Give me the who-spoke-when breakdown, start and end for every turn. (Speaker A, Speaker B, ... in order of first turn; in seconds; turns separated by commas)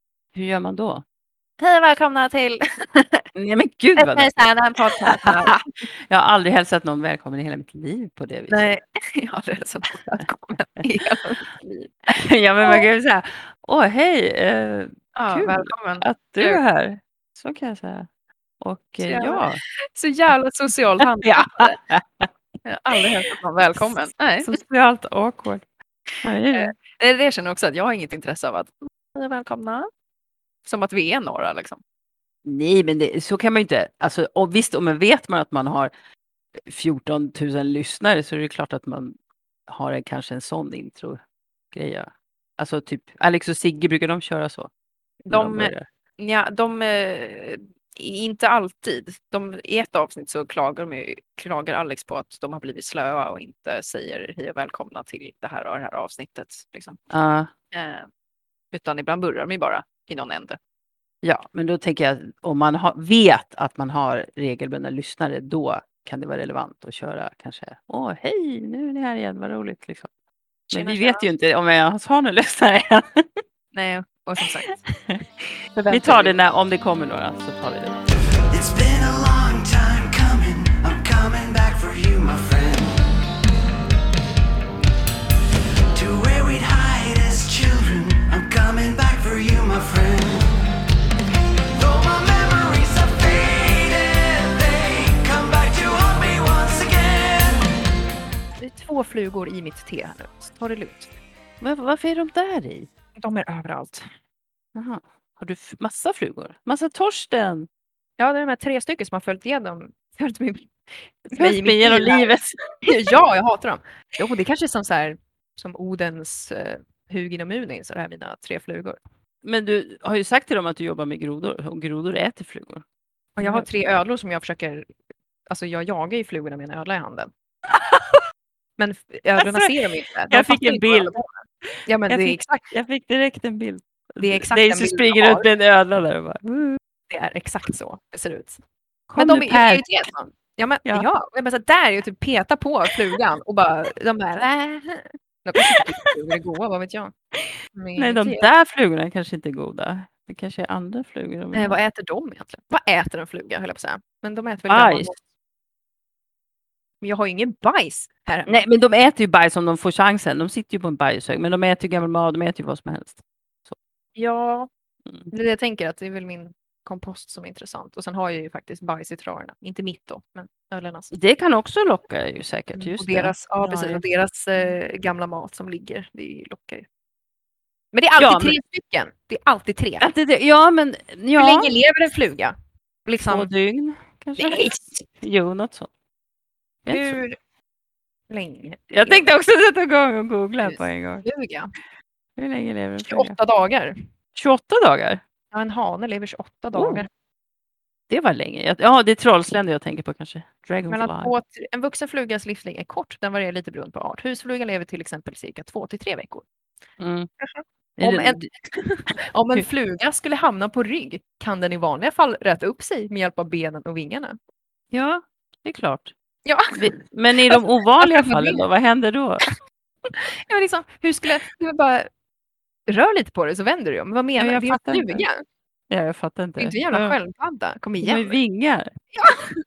Speaker A: 0.3-1.0, Speaker B: 1.6-3.2, Speaker A: 3.4-5.5, Speaker B: 4.0-5.6, Speaker A: 6.1-8.6, Speaker B: 8.5-11.9, Speaker A: 12.1-19.6, Speaker B: 15.2-16.6, Speaker B: 19.0-21.8, Speaker A: 21.2-22.3, Speaker B: 22.6-25.6, Speaker A: 26.2-26.7, Speaker B: 26.5-29.9, Speaker B: 30.7-31.8, Speaker A: 32.5-35.9, Speaker A: 36.6-39.2, Speaker A: 39.7-41.2, Speaker A: 41.7-44.7, Speaker B: 45.2-57.0, Speaker A: 45.3-45.9, Speaker A: 57.1-57.5, Speaker B: 57.7-58.1, Speaker B: 58.7-60.6, Speaker A: 61.2-70.1, Speaker B: 70.7-71.3, Speaker A: 70.7-73.4, Speaker B: 73.7-75.0, Speaker B: 75.8-76.4, Speaker A: 75.9-78.0, Speaker C: 78.5-83.1, Speaker C: 85.9-90.5, Speaker C: 91.8-97.7, Speaker B: 98.6-101.1, Speaker A: 101.6-102.9, Speaker B: 103.2-104.1, Speaker A: 104.8-107.7, Speaker B: 108.2-112.3, Speaker A: 111.4-112.6, Speaker B: 112.8-119.0, Speaker A: 119.4-122.8, Speaker B: 123.4-124.9, Speaker A: 123.4-123.7, Speaker B: 125.5-127.3, Speaker B: 128.8-132.7, Speaker A: 129.4-129.8, Speaker A: 130.3-136.8, Speaker B: 134.2-135.5, Speaker B: 137.1-138.6, Speaker A: 139.1-140.1, Speaker B: 139.2-147.1, Speaker B: 147.7-148.5, Speaker A: 148.0-151.8, Speaker B: 151.5-155.2, Speaker A: 154.7-155.2, Speaker B: 157.0-158.6, Speaker A: 158.5-163.8, Speaker B: 164.2-164.7, Speaker B: 165.3-171.1, Speaker A: 171.1-174.0, Speaker B: 172.7-176.9, Speaker B: 177.9-180.1, Speaker A: 178.2-178.6, Speaker A: 180.0-181.7, Speaker B: 181.4-182.6, Speaker B: 183.1-183.5, Speaker A: 183.3-185.9, Speaker B: 184.4-185.0, Speaker B: 186.9-187.4, Speaker A: 186.9-187.2, Speaker B: 188.3-189.2, Speaker A: 188.9-191.2, Speaker B: 190.6-191.7, Speaker A: 192.4-193.3, Speaker B: 193.1-194.0, Speaker A: 194.3-195.2, Speaker B: 195.5-197.1, Speaker A: 196.7-197.1, Speaker A: 198.1-201.3, Speaker B: 200.9-206.5, Speaker A: 207.0-207.3, Speaker B: 207.4-214.4, Speaker A: 208.0-208.5, Speaker A: 214.9-216.1, Speaker B: 216.4-218.6, Speaker A: 216.8-219.4, Speaker B: 220.1-222.1, Speaker B: 222.9-225.4, Speaker A: 224.4-225.2, Speaker A: 225.9-227.2, Speaker B: 226.6-228.4, Speaker A: 228.0-228.9